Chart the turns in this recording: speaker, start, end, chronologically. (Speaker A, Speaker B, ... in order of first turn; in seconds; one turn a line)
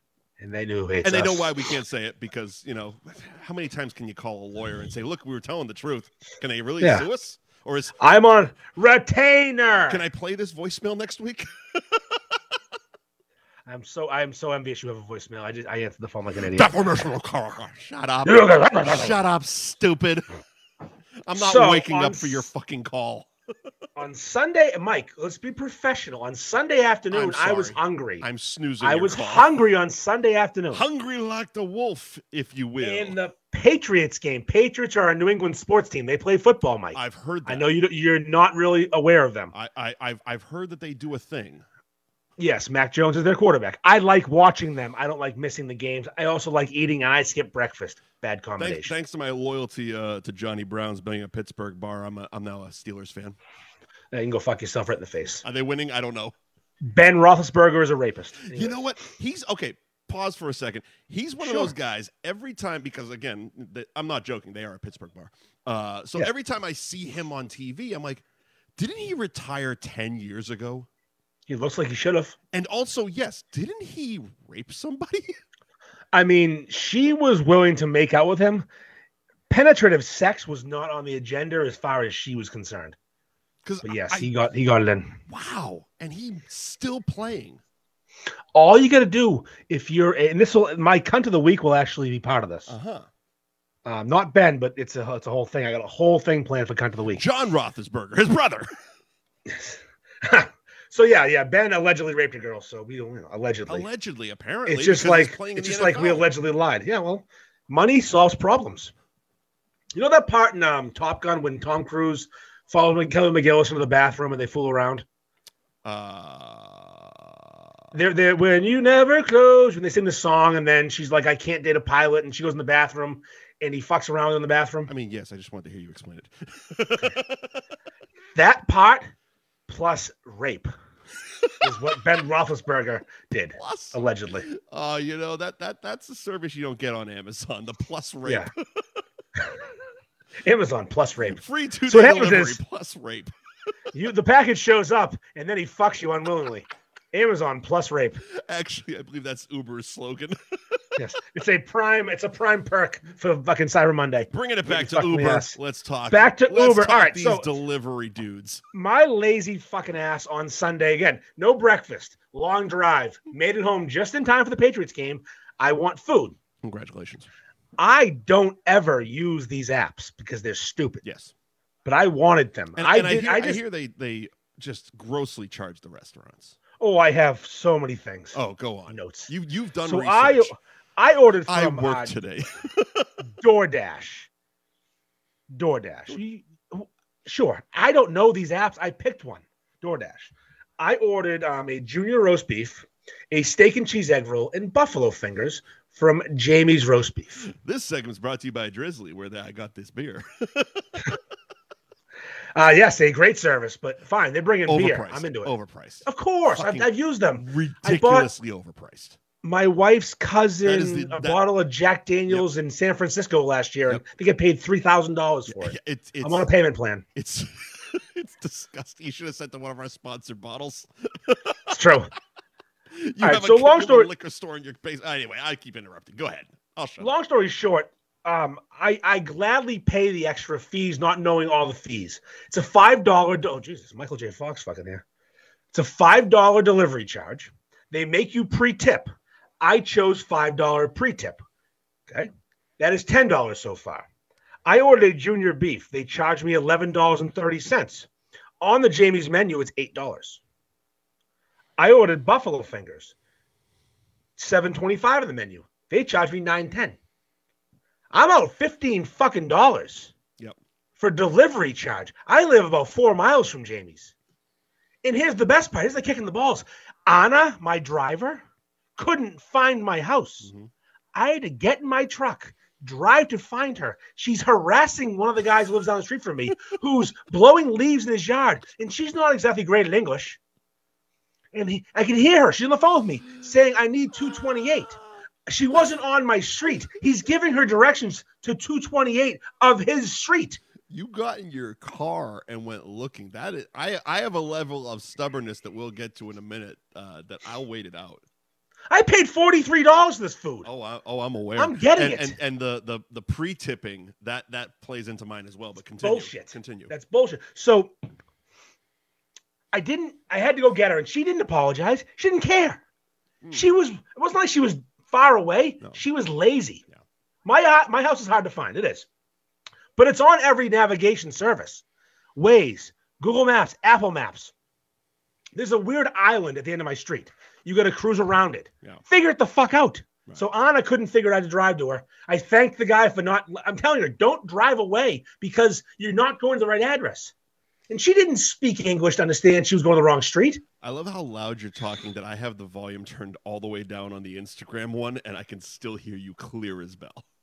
Speaker A: 0.4-1.7
Speaker B: 1.0-8.0
Speaker A: 8.0-10.0
Speaker B: 9.9-12.2
Speaker A: 13.7-16.7
Speaker B: 16.4-20.2
Speaker A: 18.2-19.2
Speaker B: 21.3-23.3
Speaker A: 21.4-22.5
Speaker A: 24.0-28.2
Speaker B: 27.1-29.5
Speaker A: 28.8-30.8
Speaker B: 30.7-33.2
Speaker A: 32.8-39.5
Speaker B: 36.9-37.7
Speaker B: 39.5-41.6
Speaker A: 42.4-48.9
Speaker B: 48.6-53.4
Speaker A: 54.1-55.4
Speaker B: 55.4-56.3
Speaker A: 56.8-58.8
Speaker B: 58.5-68.2
Speaker A: 61.4-61.7
Speaker B: 68.8-70.9
Speaker A: 71.5-72.3
Speaker B: 72.5-75.4
Speaker A: 76.1-78.7
Speaker A: 79.5-83.0
Speaker B: 83.6-84.3
Speaker A: 83.8-85.2
Speaker B: 85.3-87.6
Speaker A: 88.5-92.7
Speaker B: 92.7-93.1
Speaker A: 93.8-97.2
Speaker B: 97.2-98.7
Speaker A: 99.5-103.9
Speaker B: 103.7-106.3
Speaker A: 104.7-108.9
Speaker A: 109.9-115.0
Speaker B: 115.8-117.5
Speaker A: 117.9-124.9
Speaker B: 124.9-127.6
Speaker A: 128.3-129.1
Speaker A: 129.7-130.7
Speaker B: 131.4-131.7
Speaker A: 131.6-134.5
Speaker B: 133.6-139.0
Speaker A: 138.2-138.5
Speaker A: 140.4-142.6
Speaker B: 141.2-143.3
Speaker A: 143.9-148.2
Speaker B: 148.3-150.9
Speaker A: 151.0-155.6
Speaker B: 154.3-158.6
Speaker A: 156.1-157.5
Speaker A: 158.7-166.4
Speaker B: 166.6-167.3
Speaker A: 167.8-171.0
Speaker B: 171.0-171.3
Speaker A: 171.8-173.6
Speaker B: 172.8-176.6
Speaker A: 176.8-178.4
Speaker B: 178.3-180.5
Speaker A: 178.9-179.3
Speaker A: 179.8-182.2
Speaker B: 181.5-183.1
Speaker A: 183.3-184.3
Speaker A: 185.5-197.5
Speaker B: 197.5-201.2
Speaker A: 202.6-205.5
Speaker B: 204.7-209.2
Speaker A: 206.1-208.3
Speaker A: 209.4-217.1
Speaker B: 210.6-211.4
Speaker B: 215.5-216.5
Speaker B: 217.2-221.8
Speaker A: 221.7-222.1
Speaker B: 222.9-227.1
Speaker A: 223.2-224.1
Speaker A: 227.0-235.0
Speaker A: 235.7-239.1
Speaker A: 239.6-241.4
Speaker A: 242.1-244.1
Speaker A: 244.7-248.1
Speaker A: 248.6-250.4
Speaker A: 251.8-253.1
Speaker A: 254.4-257.0
Speaker A: 258.1-260.1
Speaker A: 261.0-264.1
Speaker A: 265.0-268.4
Speaker A: 269.0-270.5
Speaker B: 270.4-270.7
Speaker A: 271.1-280.4
Speaker A: 281.5-290.6
Speaker B: 284.6-284.8
Speaker B: 290.9-298.2
Speaker A: 298.9-300.7
Speaker B: 300.6-306.9
Speaker A: 301.6-302.4
Speaker A: 306.0-307.9
Speaker A: 309.7-312.8
Speaker B: 313.4-313.7
Speaker A: 313.5-316.8
Speaker A: 317.4-319.1
Speaker A: 320.0-321.8
Speaker A: 322.4-324.5
Speaker A: 325.6-337.3
Speaker A: 337.9-340.6
Speaker B: 340.8-347.2